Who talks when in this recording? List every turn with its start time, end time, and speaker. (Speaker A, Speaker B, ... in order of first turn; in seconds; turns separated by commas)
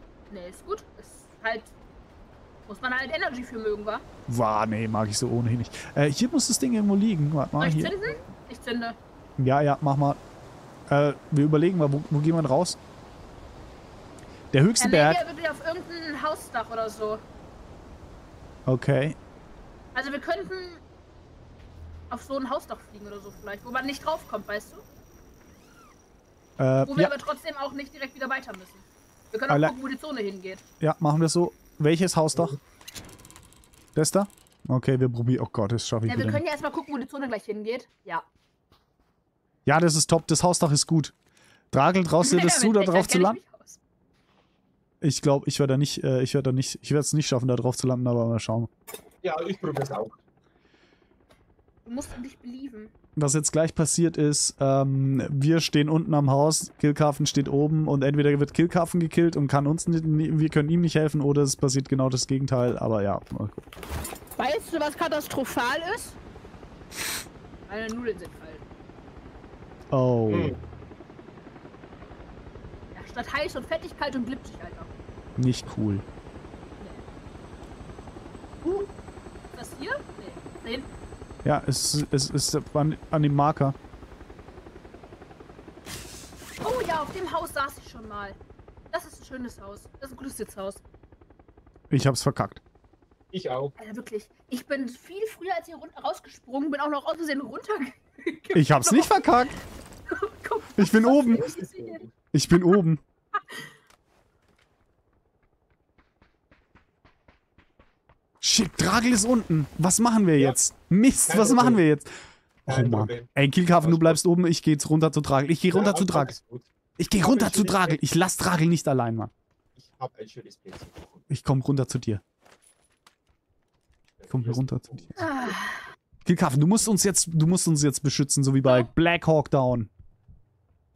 Speaker A: 0.3-1.7, Speaker A: 2.7-4.0, Speaker B: 4.3-7.9, Speaker A: 7.6-9.0, Speaker B: 9.4-10.2, Speaker B: 10.9-12.8, Speaker B: 14.5-15.2, Speaker A: 14.8-17.2, Speaker B: 18.6-19.2, Speaker A: 19.9-20.8, Speaker A: 22.1-24.8, Speaker B: 26.6-27.1, Speaker A: 26.8-30.6, Speaker B: 29.5-29.7, Speaker B: 30.8-32.6, Speaker B: 33.9-36.4, Speaker A: 36.0-38.2, Speaker B: 39.6-41.1, Speaker B: 41.7-43.4, Speaker A: 42.2-43.8, Speaker B: 45.0-48.7, Speaker C: 49.2-50.2, Speaker A: 51.8-52.9, Speaker B: 53.1-63.6, Speaker A: 64.4-66.2, Speaker A: 67.7-68.6, Speaker B: 69.9-70.5, Speaker C: 70.3-70.6, Speaker A: 72.9-74.9, Speaker B: 75.4-76.0, Speaker A: 78.6-78.9, Speaker A: 79.5-80.9, Speaker B: 81.4-83.8, Speaker A: 86.6-88.4, Speaker A: 88.9-90.8, Speaker B: 91.9-92.6, Speaker C: 93.3-93.8, Speaker A: 93.8-102.0, Speaker B: 98.5-99.5, Speaker B: 100.8-101.5, Speaker C: 101.3-102.1, Speaker B: 102.3-103.0, Speaker A: 103.3-103.7, Speaker B: 108.4-112.1, Speaker C: 111.3-111.8, Speaker C: 112.7-114.2, Speaker B: 112.7-116.3, Speaker C: 115.7-118.0, Speaker B: 117.0-119.3, Speaker C: 119.8-121.2, Speaker B: 121.3-122.2, Speaker C: 124.2-125.3, Speaker B: 124.3-125.2, Speaker A: 125.2-125.9, Speaker B: 126.2-129.9